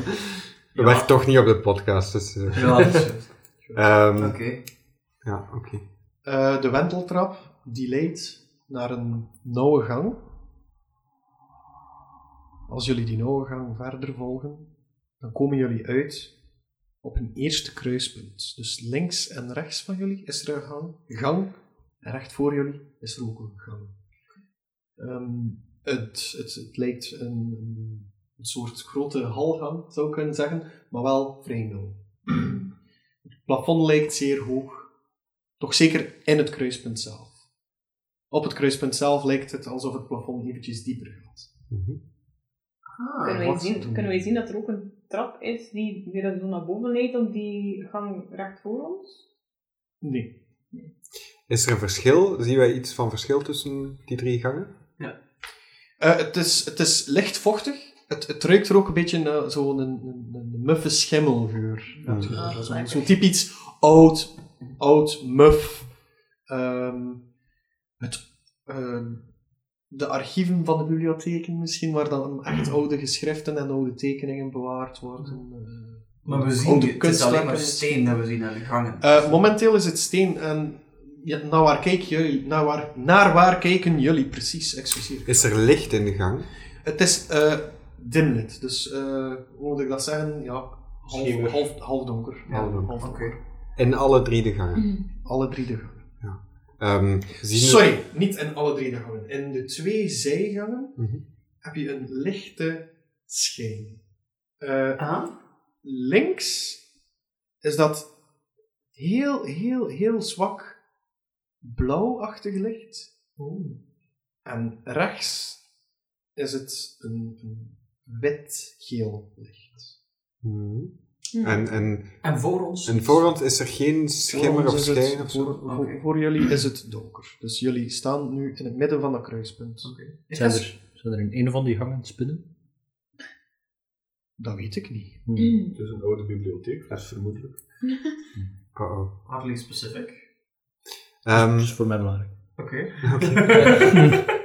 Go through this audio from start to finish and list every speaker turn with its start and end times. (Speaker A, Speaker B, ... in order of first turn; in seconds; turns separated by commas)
Speaker A: 0.7-1.1, Speaker B: 0.8-3.1, Speaker A: 2.5-3.3, Speaker C: 3.6-4.0, Speaker B: 3.8-4.6, Speaker A: 4.2-4.6, Speaker B: 5.2-5.8, Speaker C: 6.2-10.2, Speaker C: 12.7-16.3, Speaker C: 17.0-23.9, Speaker C: 25.0-32.6, Speaker C: 33.4-34.9, Speaker C: 35.6-37.4, Speaker C: 38.3-41.5, Speaker B: 41.7-42.0, Speaker A: 43.0-43.5, Speaker D: 43.2-49.2, Speaker C: 43.4-44.2, Speaker C: 50.0-50.4, Speaker B: 51.5-54.7, Speaker C: 56.0-65.9, Speaker A: 62.1-63.1, Speaker B: 62.1-62.4, Speaker C: 66.5-67.3, Speaker C: 68.0-69.3, Speaker C: 69.9-78.1, Speaker A: 76.2-79.3, Speaker C: 79.0-85.5, Speaker B: 85.3-86.5, Speaker C: 86.8-93.4, Speaker E: 91.1-91.6, Speaker A: 92.5-93.4, Speaker B: 92.5-93.0, Speaker B: 93.8-95.0, Speaker C: 95.2-96.1, Speaker B: 96.2-97.9, Speaker C: 97.5-101.1, Speaker B: 101.0-101.2, Speaker C: 101.6-104.0, Speaker C: 104.6-105.2, Speaker A: 105.0-105.3, Speaker C: 105.8-106.8, Speaker C: 107.6-108.1, Speaker C: 109.0-110.8, Speaker C: 111.6-113.1, Speaker A: 113.4-113.8, Speaker C: 114.5-115.6, Speaker C: 116.4-120.0, Speaker B: 120.4-125.6, Speaker D: 121.3-121.6, Speaker A: 122.2-123.3, Speaker C: 124.3-129.9, Speaker A: 125.7-126.0, Speaker A: 129.8-130.7, Speaker F: 130.3-132.4, Speaker C: 134.4-135.3, Speaker F: 135.3-135.6, Speaker E: 135.7-137.7, Speaker B: 138.7-139.1, Speaker A: 139.2-140.2, Speaker B: 141.2-141.7, Speaker F: 141.3-142.3, Speaker A: 142.6-144.2, Speaker B: 143.0-143.8, Speaker F: 143.8-144.1